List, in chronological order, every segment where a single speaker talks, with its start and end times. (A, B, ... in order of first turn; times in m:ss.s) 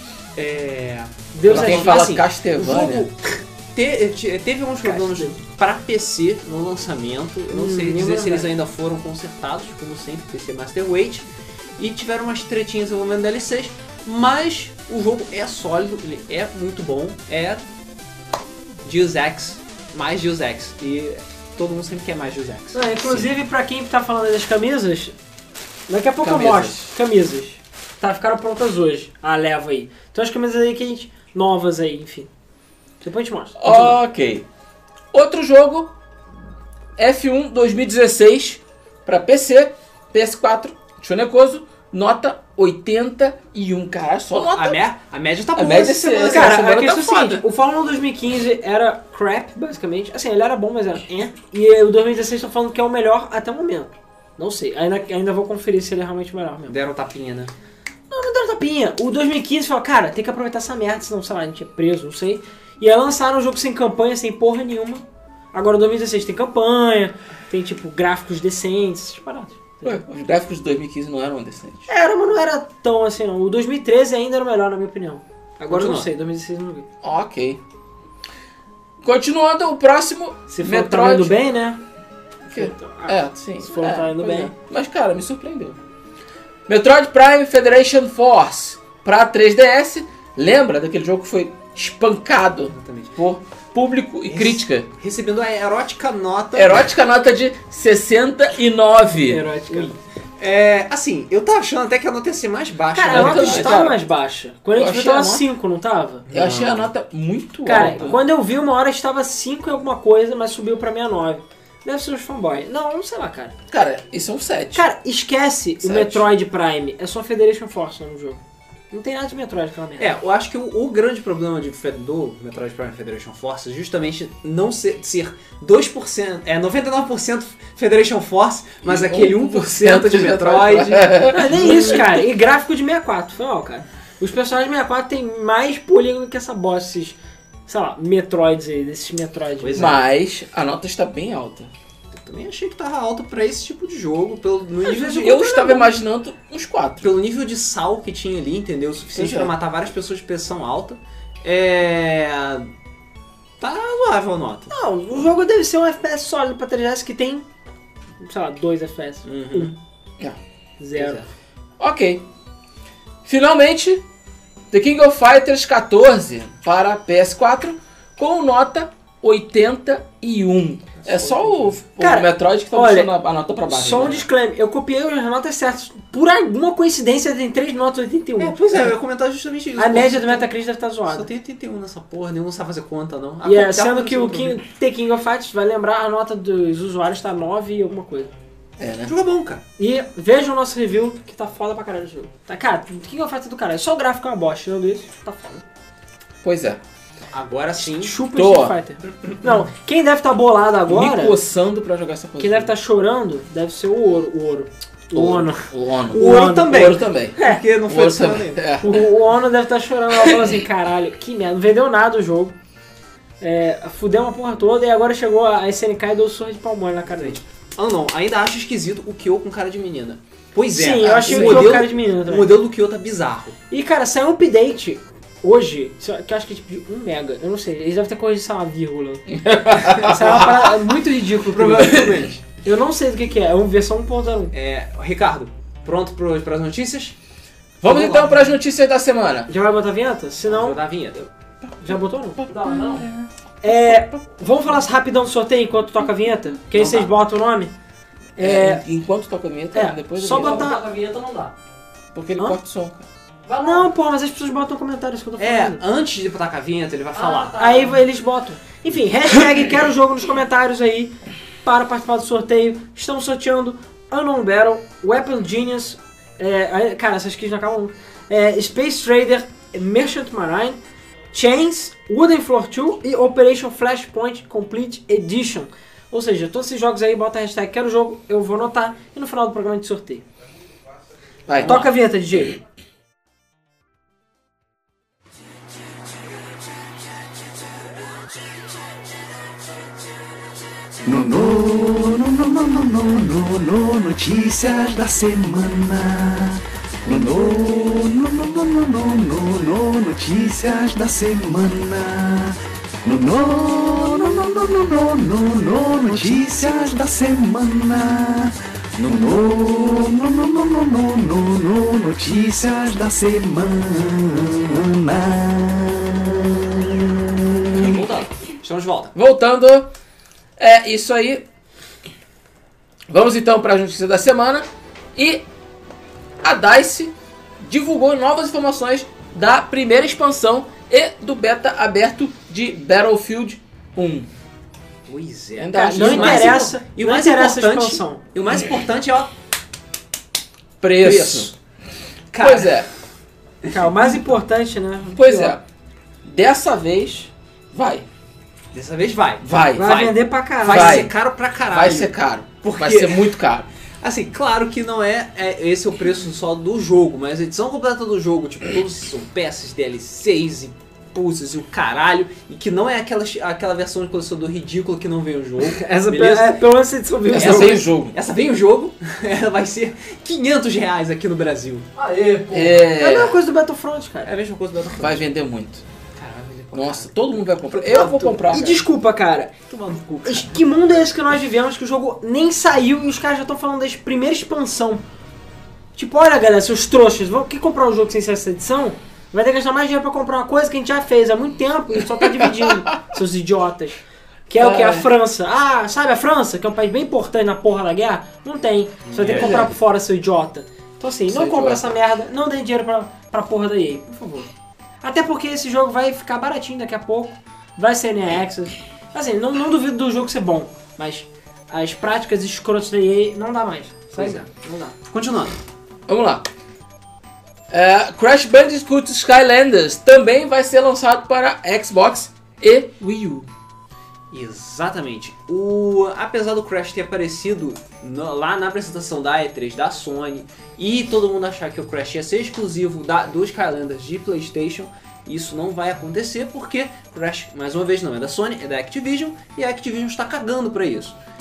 0:00.4-0:11.3 A
0:01.3-0:02.1 B
0:01.5-0:03.1 C
0:04.8-0:05.4 B
0:07.5-0:08.5 B
0:11.8-0:17.6 A
0:18.8-0:22.8 A
0:22.7-0:25.2 B
0:25.9-0:32.3 B
0:26.2-0:26.9 C
0:33.0-0:34.0 B
0:33.6-0:34.4 C
0:35.1-0:35.9 C
0:37.0-0:44.8 C
0:44.4-0:46.6 A
0:45.6-0:47.4 C
0:46.2-0:56.8 B
0:56.7-0:57.5 A
0:58.1-1:10.0 B
1:09.8-1:11.9 C
1:11.9-1:16.9 B
1:15.7-1:16.1 A
1:17.0-1:17.6 C
1:19.0-1:21.4 C
1:20.5-1:21.8 B
1:22.4-1:24.5 B
1:22.5-1:25.8 C
1:26.7-1:34.9 C
1:32.7-1:33.2 A
1:34.3-1:36.9 A
1:36.5-1:39.5 C
1:39.2-1:40.0 B
1:39.7-1:43.9 A
1:42.9-1:46.2 B
1:43.1-1:44.0 C
1:44.8-1:45.5 C
1:46.3-1:46.9 A
1:46.3-1:48.2 C
1:47.6-1:53.6 B
1:47.8-1:48.2 A
1:53.7-1:54.9 C
1:54.8-2:00.1 B
1:55.8-1:56.3 C
2:00.0-2:12.0 A
2:08.8-2:12.2 C
2:11.3-2:19.9 B
2:19.6-2:20.0 A
2:19.8-2:21.7 C
2:22.1-2:25.5 A
2:24.8-2:25.9 B
2:25.2-2:27.1 C
2:27.0-2:32.7 A
2:29.1-2:29.5 C
2:33.6-2:34.7 A
2:34.7-2:37.5 B
2:38.2-2:39.7 B
2:39.2-2:39.8 A
2:40.8-2:41.2 B
2:41.0-2:41.3 A
2:41.8-2:42.2 C
2:43.2-2:44.0 C
2:44.7-2:54.3 C
2:51.0-2:51.7 A
2:52.0-2:53.1 B
2:53.7-2:59.0 B
2:58.4-3:00.5 A
2:59.8-3:01.3 B
3:01.1-3:04.6 A
3:03.4-3:08.3 B
3:08.8-3:09.1 C
3:09.1-3:09.6 A
3:09.8-3:15.6 B
3:16.4-3:16.8 C
3:17.3-3:18.2 A
3:17.8-3:21.4 B
3:18.3-3:18.8 C
3:20.9-3:22.7 C
3:22.4-3:27.6 B
3:25.1-3:29.0 C
3:26.1-3:28.7 A
3:28.8-3:32.6 B
3:30.2-3:30.5 C
3:33.4-3:37.4 B
3:37.1-3:43.6 A
3:40.7-3:42.6 B
3:41.3-3:41.8 C
3:43.7-3:49.3 B
3:49.3-3:50.7 C
3:49.8-3:54.5 B
3:51.4-3:52.4 A
3:51.8-3:52.3 C
3:54.5-3:57.2 A
3:57.8-3:59.5 C
3:57.9-3:58.4 B
3:59.5-4:00.8 B
4:00.5-4:01.3 A
4:01.6-4:03.3 C
4:01.8-4:03.0 B
4:03.6-4:07.7 B
4:06.8-4:07.1 A
4:08.4-4:08.8 B
4:08.4-4:10.7 C
4:09.7-4:10.8 B
4:10.3-4:11.5 D
4:12.1-4:13.1 C
4:13.5-4:13.9 D
4:13.6-4:15.8 B
4:15.4-4:17.9 A
4:17.2-4:18.0 D
4:17.5-4:30.8 B
4:31.3-4:40.2 B
4:41.5-4:41.9 C
4:41.6-4:41.9 A
4:41.6-4:42.6 B
4:51.1-5:17.1 E
5:17.8-5:19.1 A
5:17.8-5:18.3 C
5:19.1-5:19.9 C
5:20.6-5:21.5 C
5:23.1-5:25.4 C
5:26.4-5:34.3 C
5:35.1-5:39.3 A
5:35.6-5:36.7 C
5:35.8-5:38.2 B
5:40.8-5:41.5 C
5:41.0-5:41.5 A
5:42.3-5:42.9 A
5:42.4-5:42.9 C
5:43.7-5:45.6 B
5:45.1-5:45.6 C
5:46.2-5:48.1 C
5:48.7-5:53.4 A
5:49.4-5:50.1 C
5:49.8-5:51.1 B
5:50.6-5:51.1 C
5:51.7-5:53.7 C
5:54.0-6:06.6 A
6:05.6-6:07.8 B
6:07.3-6:08.2 C
6:07.3-6:11.9 A
6:11.9-6:12.8 D
6:12.5-6:13.4 C
6:12.9-6:14.3 B
6:14.2-6:15.2 A
6:15.0-6:15.8 C
6:16.2-6:18.8 A
6:16.7-6:18.8 C
6:18.5-6:19.6 B
6:19.7-6:20.6 A
6:20.2-6:25.0 B
6:26.0-6:44.5 B
6:32.2-6:32.6 C
6:34.6-6:35.1 C
6:39.1-6:39.7 A
6:39.2-6:39.7 C
6:41.3-6:42.0 C
6:45.0-6:55.0 B
6:54.2-6:54.5 A
6:55.0-6:55.6 A
6:56.1-6:56.5 C
6:57.7-7:03.5 C
7:04.3-7:21.2 A